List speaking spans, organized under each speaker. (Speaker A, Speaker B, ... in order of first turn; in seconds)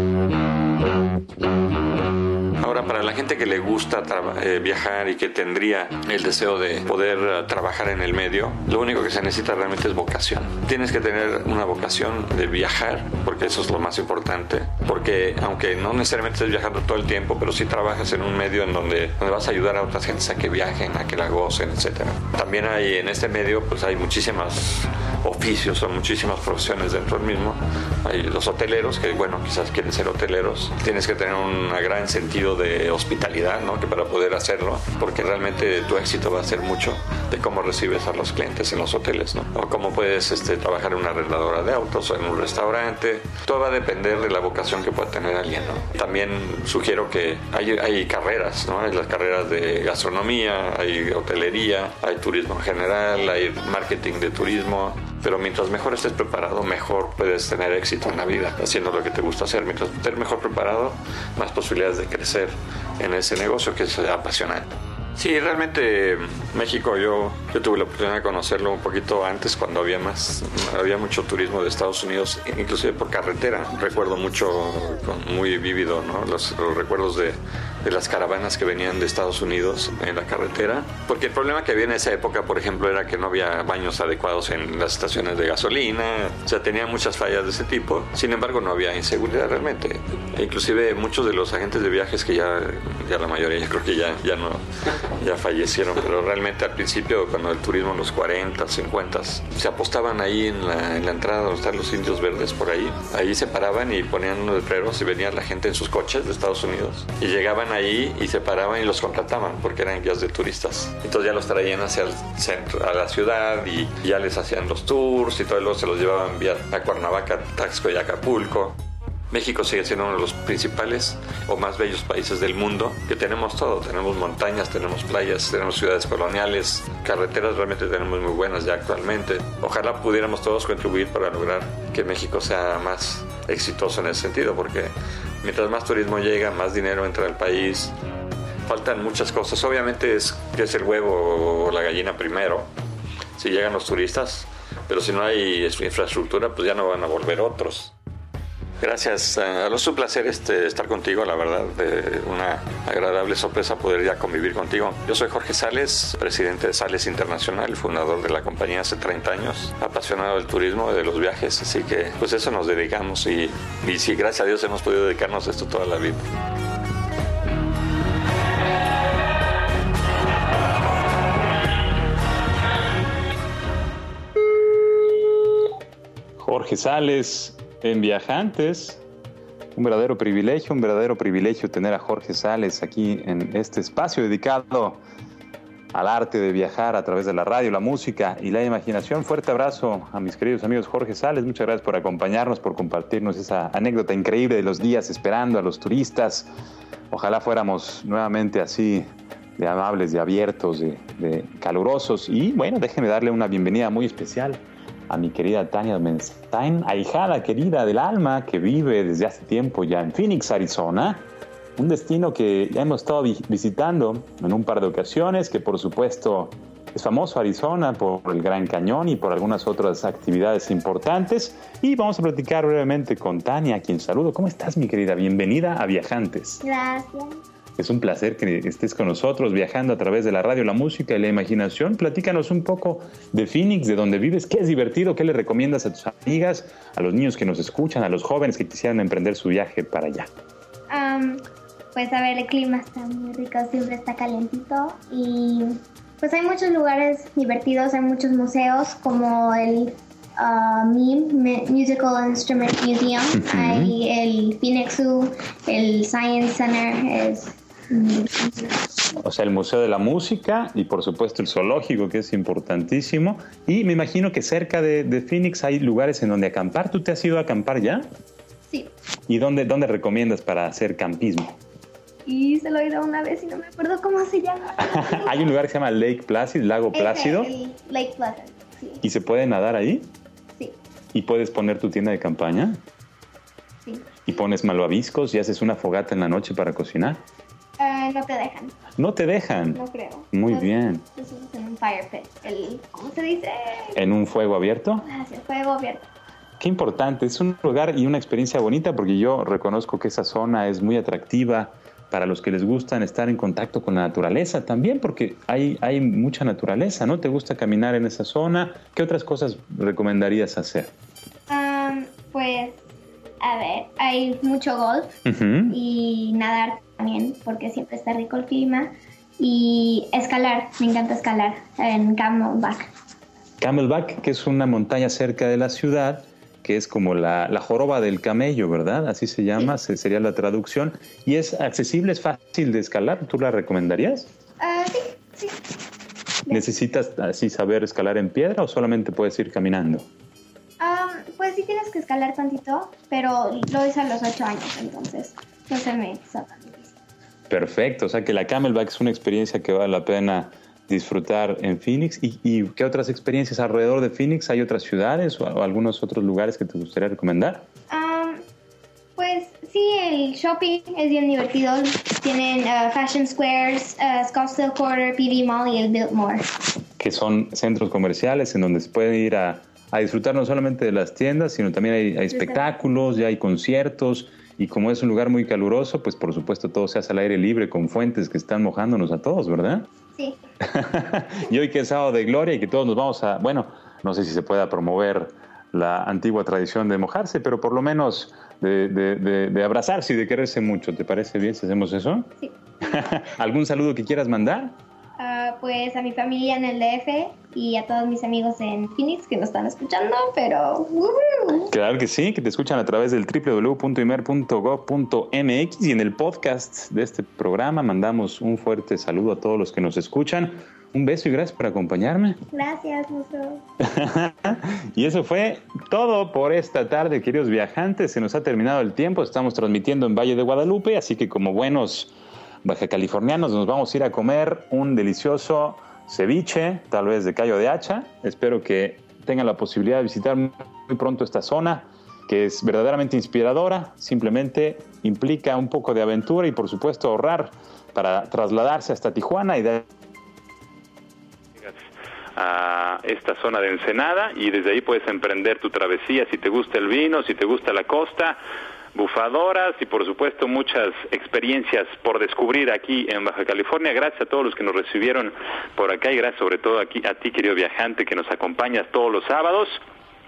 Speaker A: 2.6-94.7, 95.2-118.8, 119.3-137.9, 138.7-142.7, 143.4-147.9, 148.8-166.2
Speaker B: 176.4-179.0, 179.8-185.0, 185.9-196.5, 197.1-226.6, 227.8-240.3, 253.4-254.0, 259.2-268.1, 269.3-271.6, 274.8-277.5, 279.0-280.1, 281.1-282.8, 284.3-287.2, 289.0-289.8, 290.3-291.1, 293.9-295.1, 296.6-310.9, 315.3-315.8, 323.6-334.3, 336.5-340.1, 347.5-357.7, 367.0-379.9, 380.6-392.3, 392.9-394.8, 401.7-412.4, 413.8-422.1, 422.6-439.9
Speaker C: 226.6-227.4, 240.9-241.4, 241.9-258.7, 272.3-275.4, 276.9-279.0, 283.9-284.4, 287.8-288.8, 289.7-294.0, 295.0-296.1, 311.5-312.8, 313.4-315.1, 315.7-322.9, 334.6-335.6, 336.5-336.8, 340.8-346.9, 357.9-358.4, 359.2-366.5, 372.3-372.6, 380.1-380.4, 392.4-393.1, 395.2-401.7, 412.5-413.6
Speaker D: 442.4-448.4, 448.9-459.8